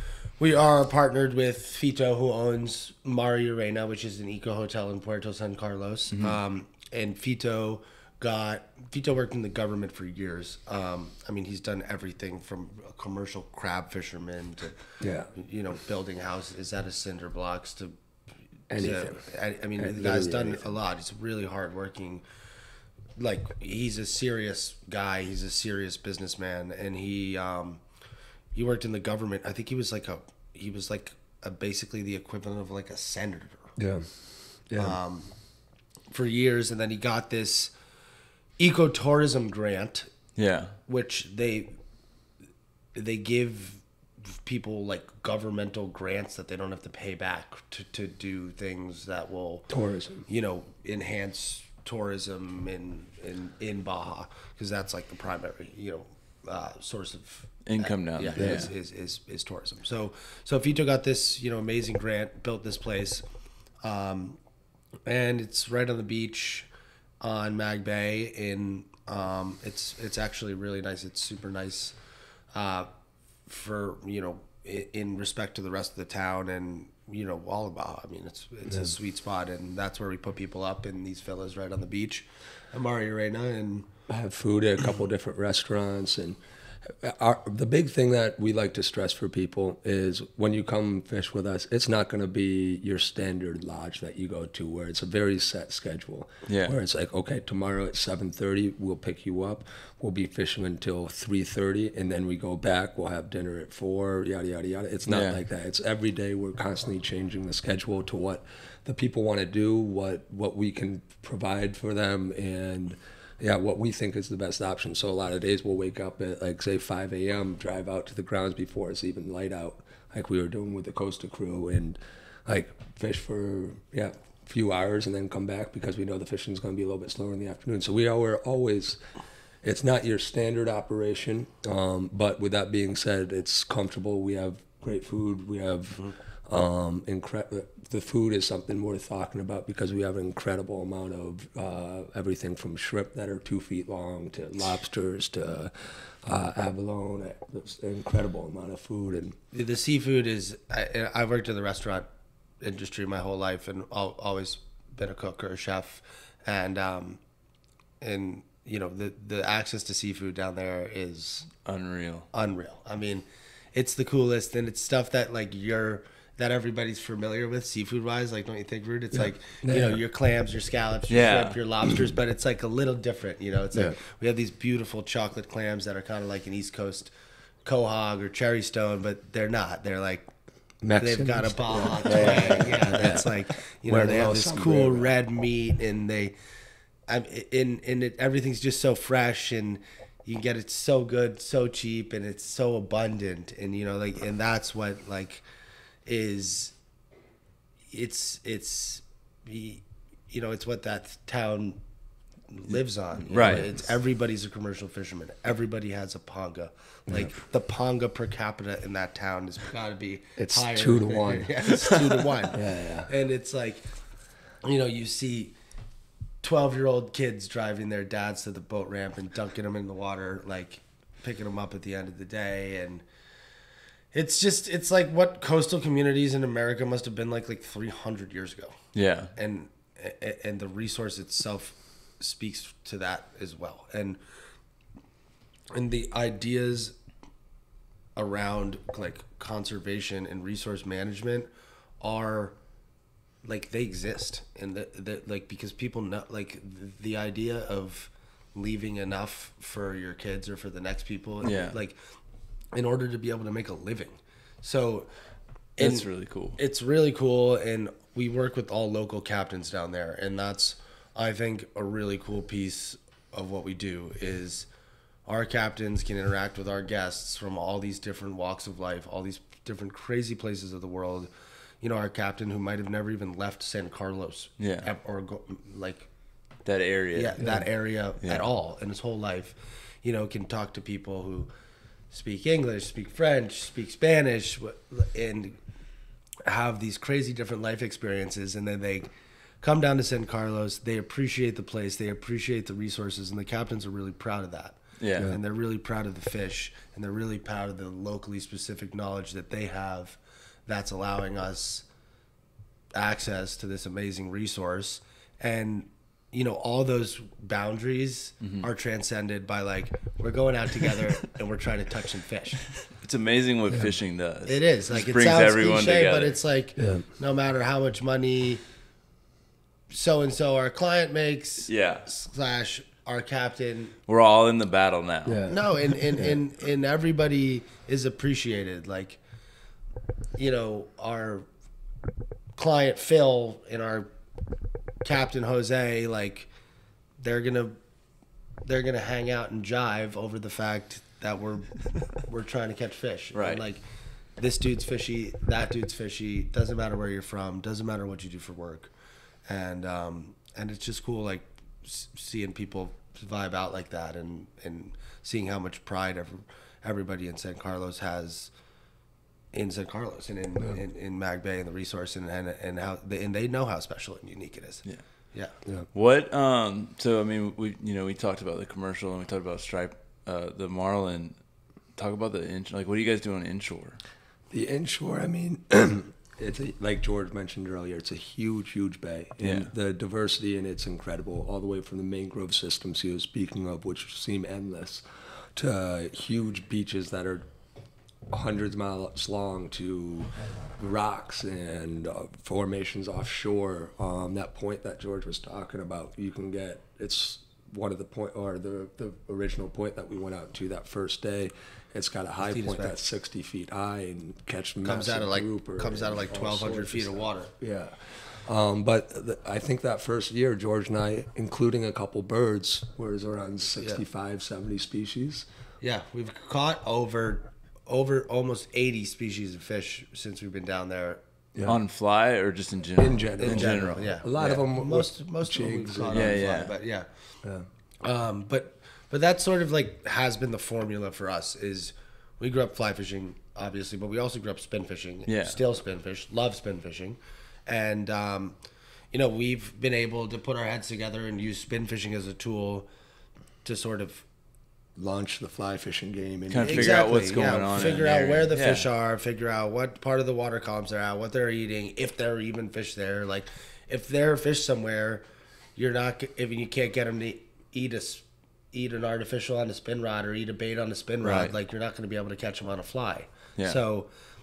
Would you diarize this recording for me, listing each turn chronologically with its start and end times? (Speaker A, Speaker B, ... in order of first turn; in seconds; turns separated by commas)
Speaker A: 0.4-17.9, Speaker B: 15.0-15.3, Speaker B: 18.7-19.2, Speaker A: 18.8-22.2, Speaker B: 19.8-20.7, Speaker A: 23.2-27.8, Speaker A: 28.5-33.7, Speaker B: 33.8-34.1, Speaker B: 34.7-35.0, Speaker A: 34.8-35.3, Speaker A: 36.1-37.7, Speaker A: 38.6-40.1, Speaker C: 40.4-40.8, Speaker A: 40.9-41.8, Speaker A: 43.0-43.8, Speaker A: 44.5-49.7, Speaker B: 49.7-50.3, Speaker A: 50.3-63.2, Speaker C: 57.7-58.7, Speaker B: 58.4-58.7, Speaker A: 63.8-64.4, Speaker A: 65.1-66.7, Speaker A: 67.2-72.0, Speaker A: 72.5-72.9, Speaker A: 73.5-83.9, Speaker B: 84.1-129.0, Speaker C: 96.5-96.8, Speaker C: 105.1-105.4, Speaker B: 129.6-149.4, Speaker A: 149.5-152.1, Speaker A: 152.6-157.2, Speaker A: 158.0-161.5, Speaker C: 161.7-162.3, Speaker A: 162.3-177.1, Speaker B: 169.6-170.0, Speaker C: 171.1-171.6, Speaker A: 177.7-180.3, Speaker B: 180.8-185.1, Speaker A: 181.0-186.3, Speaker A: 187.1-195.4, Speaker A: 196.1-196.7, Speaker A: 197.9-201.8, Speaker A: 202.5-213.9, Speaker C: 203.3-203.7, Speaker B: 210.4-211.5, Speaker B: 212.5-213.1, Speaker A: 214.6-215.5, Speaker A: 216.4-223.0, Speaker A: 224.1-228.8, Speaker C: 228.9-229.3, Speaker A: 229.3-234.2, Speaker A: 235.7-237.0, Speaker A: 238.2-242.6, Speaker A: 243.4-252.0, Speaker C: 251.4-251.8, Speaker A: 252.7-255.1, Speaker A: 255.8-264.7, Speaker C: 255.8-256.6, Speaker A: 265.3-271.3, Speaker A: 271.8-276.1, Speaker C: 274.6-274.9, Speaker C: 276.6-277.4, Speaker A: 277.1-281.5, Speaker C: 278.2-278.5, Speaker A: 282.1-285.6, Speaker A: 286.5-289.1, Speaker A: 289.6-301.9, Speaker C: 295.0-295.3, Speaker A: 302.9-312.6, Speaker C: 313.0-316.4, Speaker A: 314.5-318.6, Speaker B: 316.8-317.1, Speaker A: 319.9-324.0, Speaker C: 321.7-322.1, Speaker C: 324.1-325.4, Speaker B: 325.2-326.4, Speaker A: 325.5-329.2, Speaker A: 330.4-331.5, Speaker A: 332.6-334.1, Speaker A: 335.0-336.5, Speaker A: 337.2-337.8, Speaker A: 338.6-343.8, Speaker C: 343.4-343.6, Speaker A: 344.4-348.9, Speaker A: 349.5-358.5, Speaker A: 359.5-365.5, Speaker C: 365.9-371.4, Speaker C: 372.0-374.0, Speaker B: 374.5-385.0, Speaker C: 379.4-379.7, Speaker B: 385.6-387.5, Speaker B: 388.3-415.5, Speaker A: 402.4-403.0, Speaker A: 404.8-407.5, Speaker A: 415.8-421.2, Speaker B: 421.6-421.8, Speaker C: 421.7-424.1, Speaker B: 423.0-426.5, Speaker A: 423.4-427.1, Speaker C: 426.1-426.7, Speaker A: 428.0-438.6, Speaker C: 435.3-435.6, Speaker A: 439.1-442.9, Speaker A: 443.6-444.2, Speaker B: 445.0-447.3, Speaker C: 446.5-448.9, Speaker A: 446.6-455.2, Speaker A: 455.8-464.1, Speaker C: 461.2-461.5